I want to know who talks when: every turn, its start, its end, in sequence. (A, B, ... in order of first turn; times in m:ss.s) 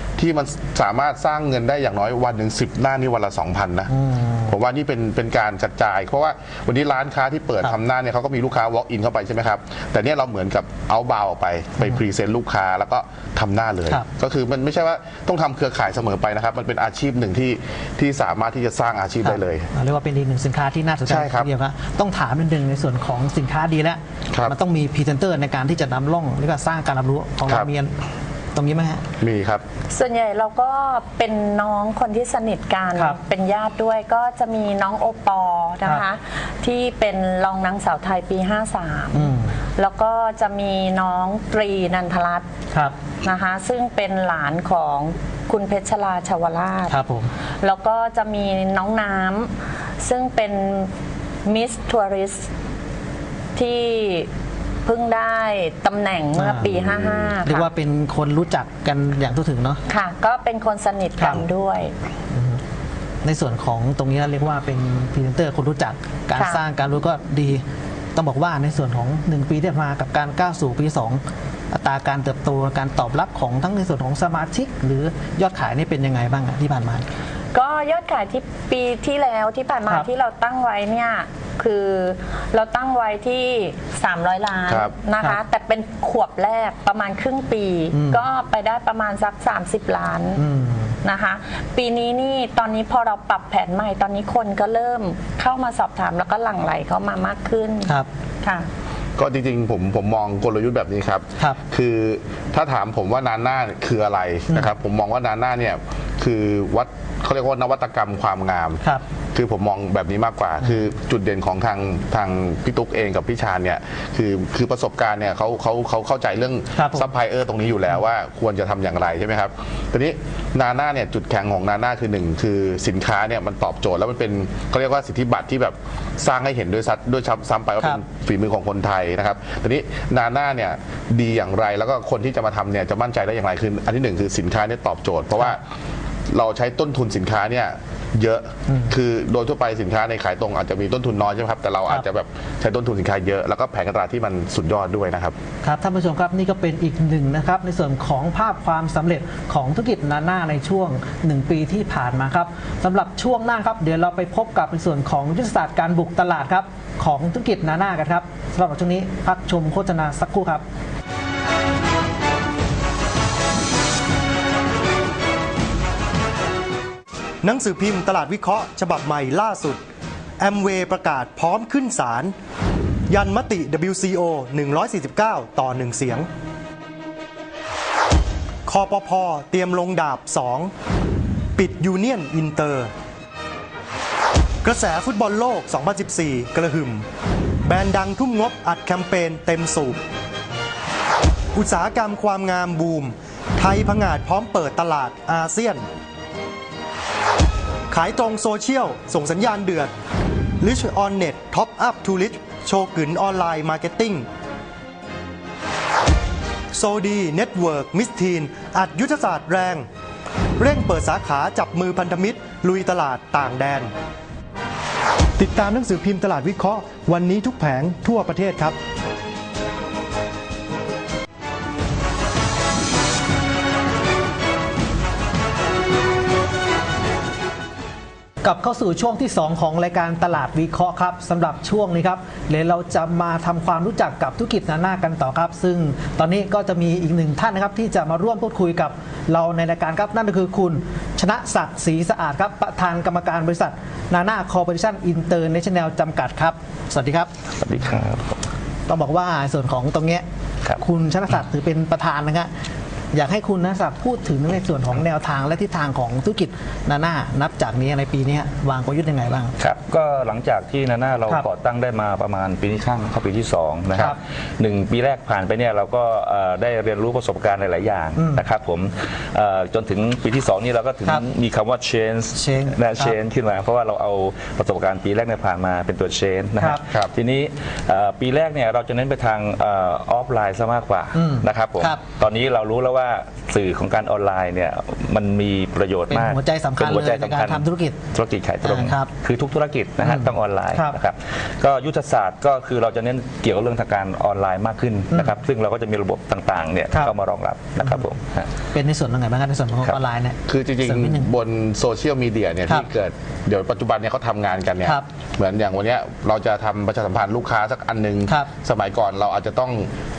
0:00.2-0:03.9 A
0:03.9-0:04.5 B
0:04.5-0:19.7 A
0:19.2-0:28.0 B
0:21.0-0:21.5 A
0:24.3-0:24.6 A
0:28.5-0:29.0 B
0:29.2-0:29.6 A
0:29.9-0:42.5 C
0:39.1-0:39.6 B
0:42.7-0:43.0 B
0:43.2-0:47.0 C
0:46.9-0:47.3 B
0:47.6-0:50.9 C
0:51.4-0:52.5 C
0:53.6-0:54.3 C
0:54.8-0:57.7 C
0:56.4-0:56.7 B
0:56.7-0:57.4 A
0:57.4-0:59.8 B
0:59.9-1:01.9 C
1:01.2-1:01.4 B
1:02.3-1:02.6 B
1:03.2-1:07.6 B
1:06.4-1:06.6 C
1:08.2-1:17.1 B
1:17.5-1:30.4 C
1:24.7-1:25.0 A
1:27.9-1:28.2 B
1:30.4-1:31.0 B
1:31.0-1:38.7 C
1:39.2-1:48.8 A
1:49.4-2:15.6 A
1:56.7-1:57.1 B
2:16.3-2:25.4 A
2:18.7-2:19.0 B
2:25.6-2:40.6 B
2:47.4-2:49.8 D
2:50.4-2:52.3 D
2:53.1-2:56.3 D
2:58.7-3:00.7 D
3:01.6-3:02.9 D
3:04.6-3:07.1 D
3:07.6-3:10.0 D
3:11.6-3:15.8 D
3:17.9-3:19.9 D
3:20.6-3:24.3 D
3:26.7-3:29.9 D
3:30.6-3:33.9 D
3:35.4-3:38.8 D
3:48.4-4:07.3 B
4:07.6-4:08.4 E
4:08.9-4:10.2 B
4:10.8-4:12.5 B
4:13.1-4:19.5 B
4:19.6-4:58.5 E
4:28.2-4:28.5 B
4:32.3-4:33.2 B
4:36.9-4:37.1 A
4:41.1-4:42.0 B
4:46.1-4:48.0 B
4:48.6-4:49.1 B
4:50.0-4:51.0 B
4:57.8-4:58.1 B
4:58.7-5:01.3 B
5:00.5-5:09.9 A